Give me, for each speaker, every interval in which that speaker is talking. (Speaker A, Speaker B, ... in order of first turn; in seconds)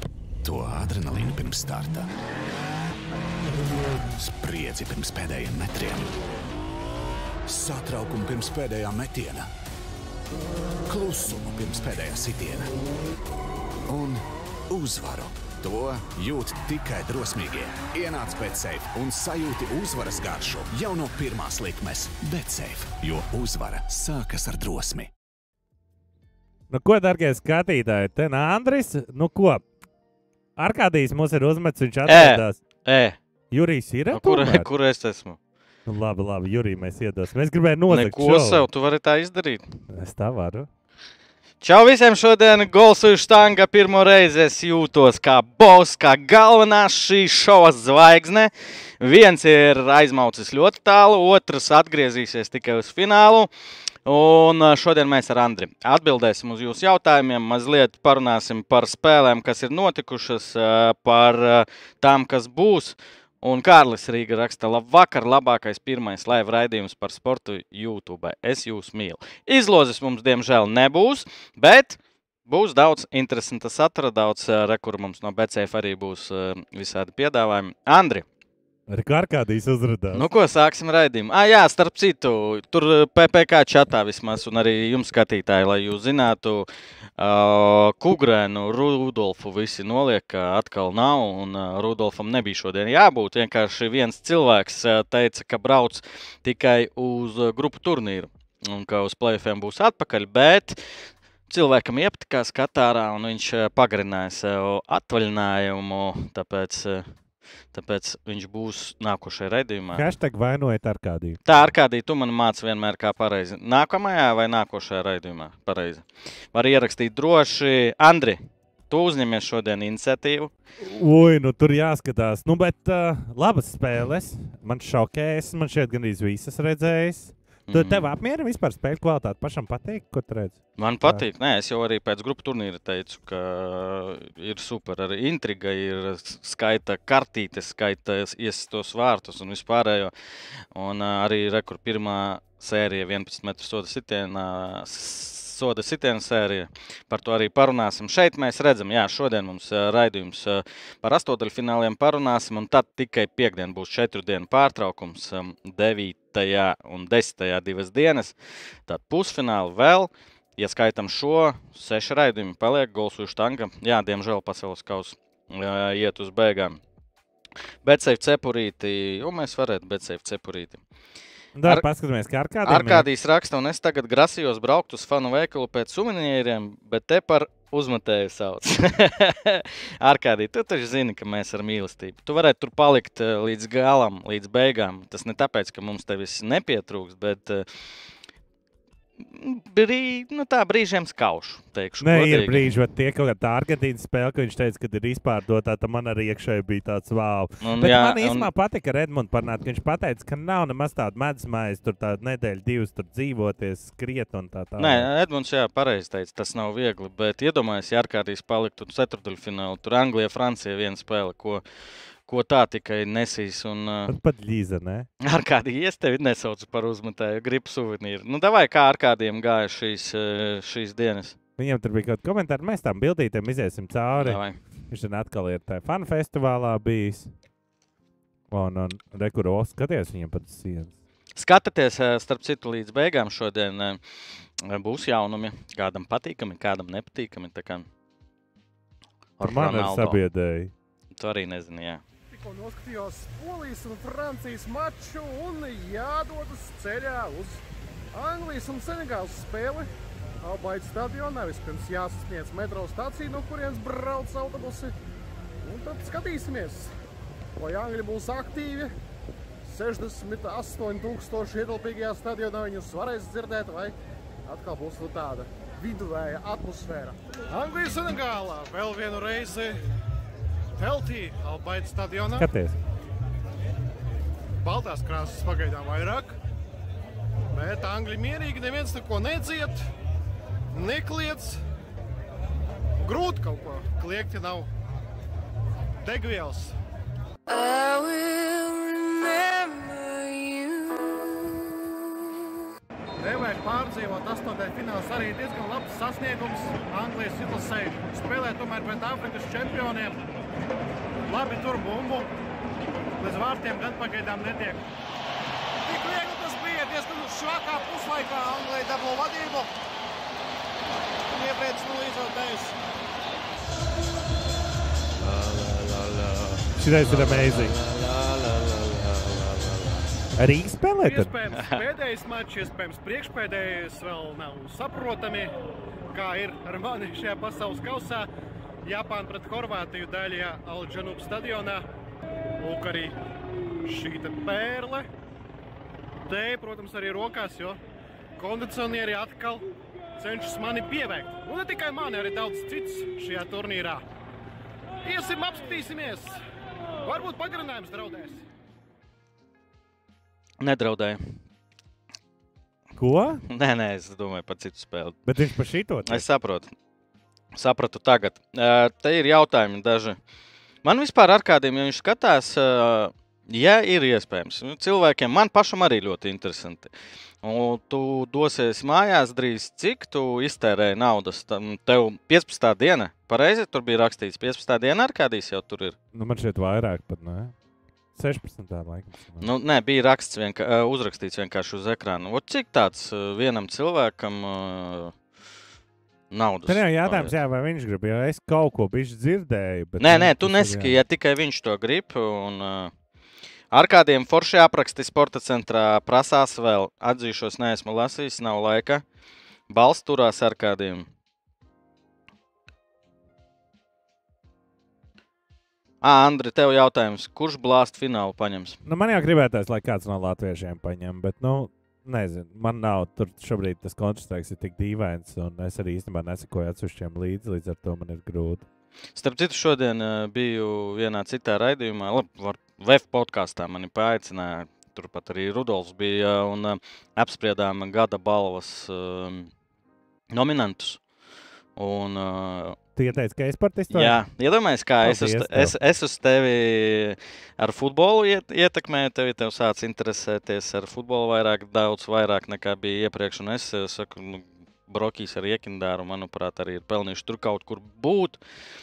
Speaker A: 0.4-2.1, 4.2-6.1, 7.5-9.5, 10.9-12.7, 13.9-25.1
Speaker B: 26.7-29.6, 30.6-32.6, 33.5-34.7, 35.9-38.7, 39.9-40.7, 78.9-80.2, 110.0-111.4, 120.8-131.2, 171.6-173.1, 192.0-205.1, 214.1-215.1, 221.6-227.3, 228.5-230.9, 239.4-240.7, 272.3-272.8, 316.8-317.7, 320.4-321.3, 352.9-353.4, 355.2-356.2, 376.1-377.5, 378.1-379.4, 386.7-391.0, 408.9-418.6, 432.9-434.2, 435.0-435.8
Speaker C: 32.0-33.2, 34.1-35.4, 37.9-39.7, 41.6-53.5, 54.0-78.2, 80.1-86.7, 87.2-100.8, 101.5-107.1, 107.7-110.1, 111.5-120.5, 127.7-128.1, 130.8-140.1, 140.7-158.3, 158.9-166.8, 167.8-170.8, 172.7-187.7, 189.2-192.7, 197.6-198.5, 204.8-211.6, 212.2-214.1, 215.2-221.4, 224.2-224.6, 231.4-234.0, 234.6-237.9, 239.4-240.2, 241.2-242.0, 315.2-320.0, 321.6-321.8, 350.6-351.4, 353.5-355.2, 356.1-356.7, 357.5-360.2, 360.8-366.9, 367.4-375.9, 379.4-385.1, 386.3-387.3, 390.0-392.9, 393.7-399.0, 399.7-401.1, 406.0-408.8, 419.2-429.5, 430.3-431.0, 431.8-432.8, 433.9-448.4
Speaker D: 242.3-247.6, 248.1-249.9, 250.4-254.9, 255.6-256.9, 257.6-258.9, 259.6-263.9, 264.4-269.8, 270.8-272.5, 274.6-276.4, 277.5-279.9, 280.7-281.6, 283.0-284.7, 286.0-286.7, 293.2-300.2, 301.3-302.3, 303.2-304.9, 305.9-309.7, 311.3-312.8, 321.0-325.5, 326.1-328.3, 328.8-331.9, 332.6-333.2, 333.9-335.1, 336.3-337.8, 338.4-339.6, 340.2-344.0, 345.0-346.4, 347.1-348.4
Speaker E: 287.5-292.4